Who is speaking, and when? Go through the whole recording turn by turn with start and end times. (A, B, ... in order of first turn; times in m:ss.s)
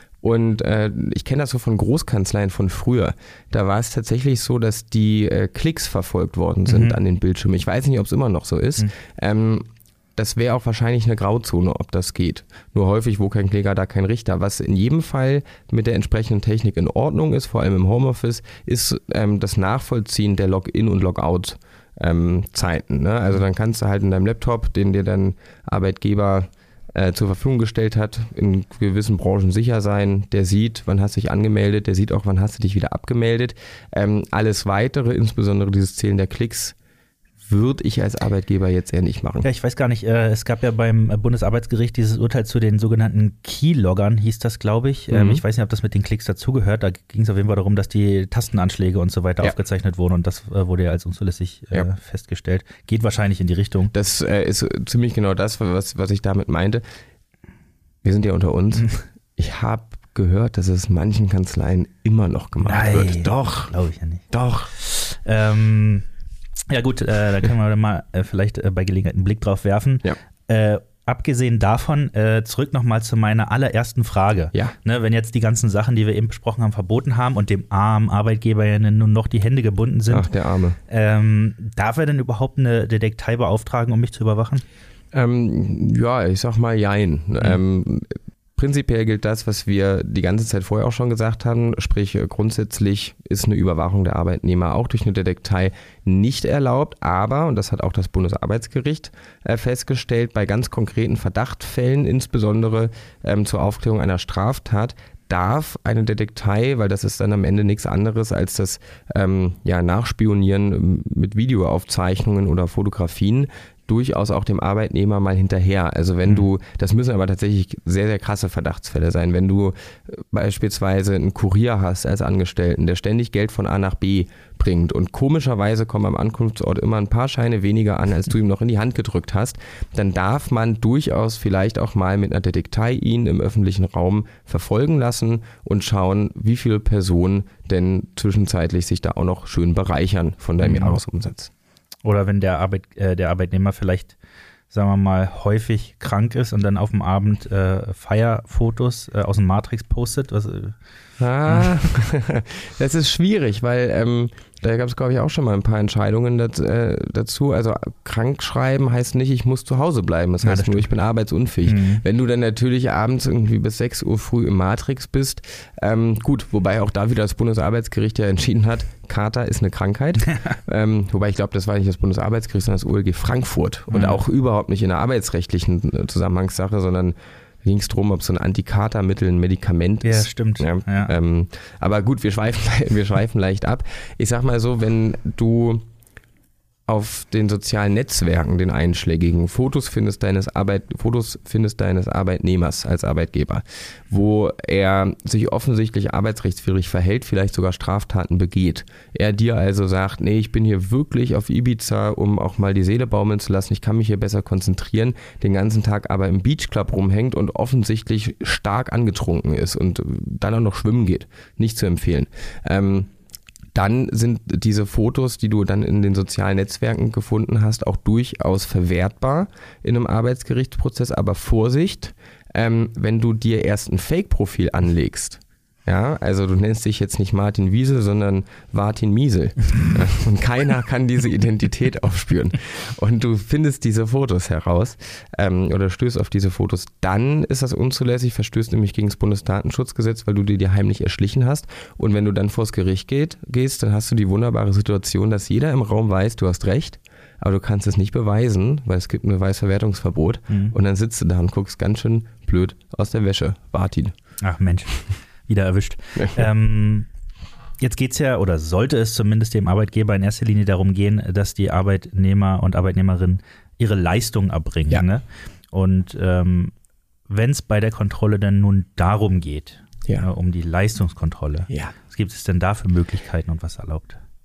0:00.2-0:36.8 A
0:06.7-0:07.0 B
0:37.4-0:39.5 A
0:39.4-0:53.9 B
0:45.1-0:45.4 A
0:53.9-0:56.8 A
0:58.0-1:03.7 A
1:02.6-1:06.0 B
1:04.3-1:04.7 A
1:06.7-1:20.3 B
1:20.1-1:20.8 A
1:20.9-1:24.6 B
1:25.1-2:21.5 A
2:20.6-2:21.0 B
2:22.0-2:24.2 B
2:24.7-2:30.8 B
2:31.2-3:05.8 A
2:31.5-2:31.8 B
2:40.4-2:40.9 B
2:41.6-2:42.0 B
2:53.9-2:54.2 B
3:00.0-3:01.2 B
3:06.9-3:33.1 A
3:33.7-4:14.1 A
4:10.5-4:10.8 B
4:14.4-4:17.1 B
4:17.8-4:26.7 B
4:27.3-4:34.2 B